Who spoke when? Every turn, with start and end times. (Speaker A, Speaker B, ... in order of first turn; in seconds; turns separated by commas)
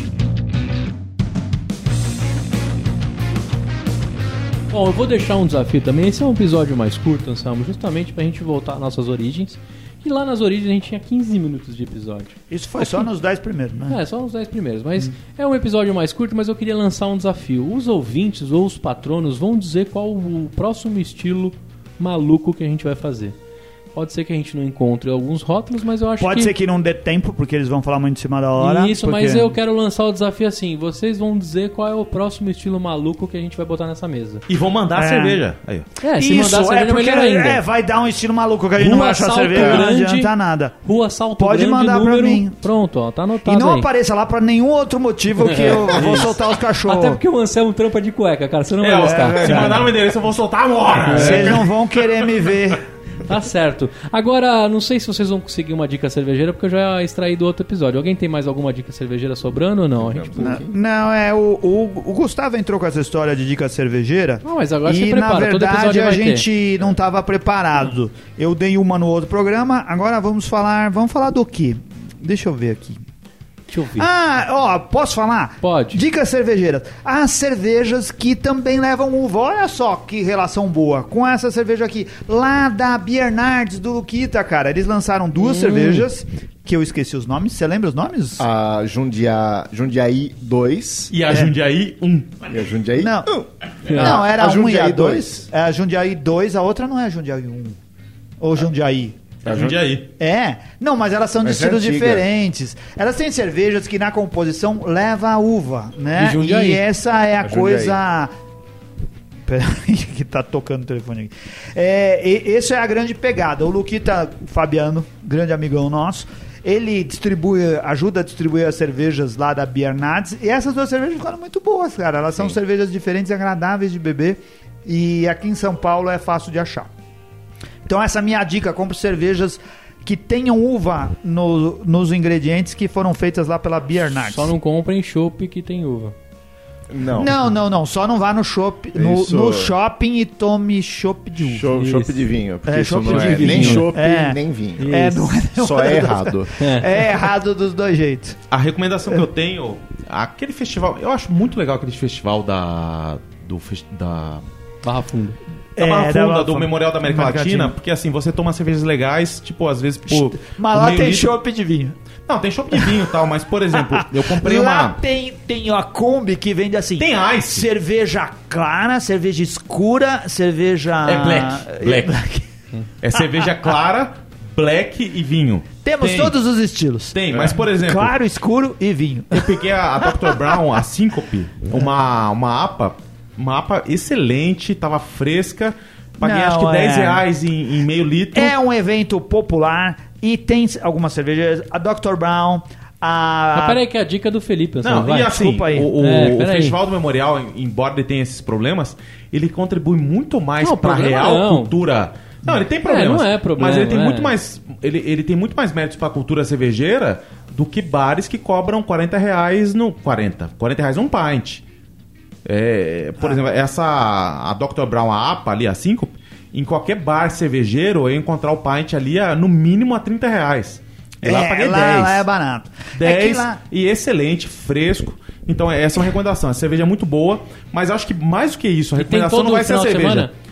Speaker A: 4.7-13.1, Speaker B: 12.5-14.0, Speaker A: 13.9-23.4, Speaker A: 23.9-26.5, Speaker B: 26.2-29.5, Speaker A: 28.6-34.5, Speaker C: 34.5-35.9, Speaker B: 35.0-35.4, Speaker A: 36.0-37.6, Speaker B: 36.1-40.8, Speaker A: 38.8-40.3, Speaker D: 39.5-39.9, Speaker A: 40.8-43.9, Speaker B: 41.4-42.6, Speaker B: 43.5-47.2, Speaker A: 45.4-49.9, Speaker C: 48.8-52.2, Speaker B: 49.0-49.8, Speaker A: 51.1-51.6, Speaker B: 51.1-52.8, Speaker A: 53.3-60.6, Speaker D: 60.0-60.7, Speaker B: 60.4-73.0, Speaker A: 64.4-66.5, Speaker A: 73.7-74.1, Speaker B: 74.0-88.4, Speaker A: 75.6-76.0, Speaker A: 85.4-86.1, Speaker D: 88.4-91.1, Speaker C: 91.1-92.4, Speaker B: 91.3-91.5, Speaker D: 92.5-95.4, Speaker B: 93.0-93.3, Speaker A: 93.9-94.2, Speaker B: 93.9-97.8, Speaker B: 98.4-99.2, Speaker C: 99.5-100.1, Speaker D: 99.5-99.8, Speaker B: 100.2-108.3, Speaker D: 101.4-102.3, Speaker A: 106.2-106.8, Speaker D: 107.4-108.0, Speaker B: 109.5-126.9, Speaker B: 127.9-134.5, Speaker A: 134.2-136.2, Speaker D: 136.9-137.3, Speaker B: 137.2-141.7, Speaker D: 139.0-139.7, Speaker D: 141.4-144.9, Speaker A: 141.7-142.3, Speaker B: 142.7-148.4, Speaker A: 143.0-143.9, Speaker A: 144.8-145.4, Speaker D: 145.5-146.5, Speaker A: 146.6-146.9, Speaker C: 148.5-154.4, Speaker A: 154.8-155.4, Speaker B: 155.8-157.7, Speaker C: 155.8-161.3, Speaker B: 160.1-161.9, Speaker C: 162.3-165.0, Speaker B: 162.7-163.0, Speaker B: 163.7-172.5, Speaker C: 167.0-167.7, Speaker C: 171.0-172.2, Speaker C: 173.0-176.3, Speaker B: 175.8-180.5, Speaker C: 177.1-178.1, Speaker C: 179.3-188.6, Speaker B: 186.2-187.2, Speaker B: 188.3-193.8, Speaker A: 193.5-195.4, Speaker C: 194.8-211.6, Speaker B: 195.3-195.9, Speaker A: 195.9-196.8, Speaker A: 200.6-201.8, Speaker A: 202.8-204.3, Speaker C: 212.4-222.3, Speaker B: 221.2-223.6, Speaker C: 222.9-230.3, Speaker A: 229.0-230.3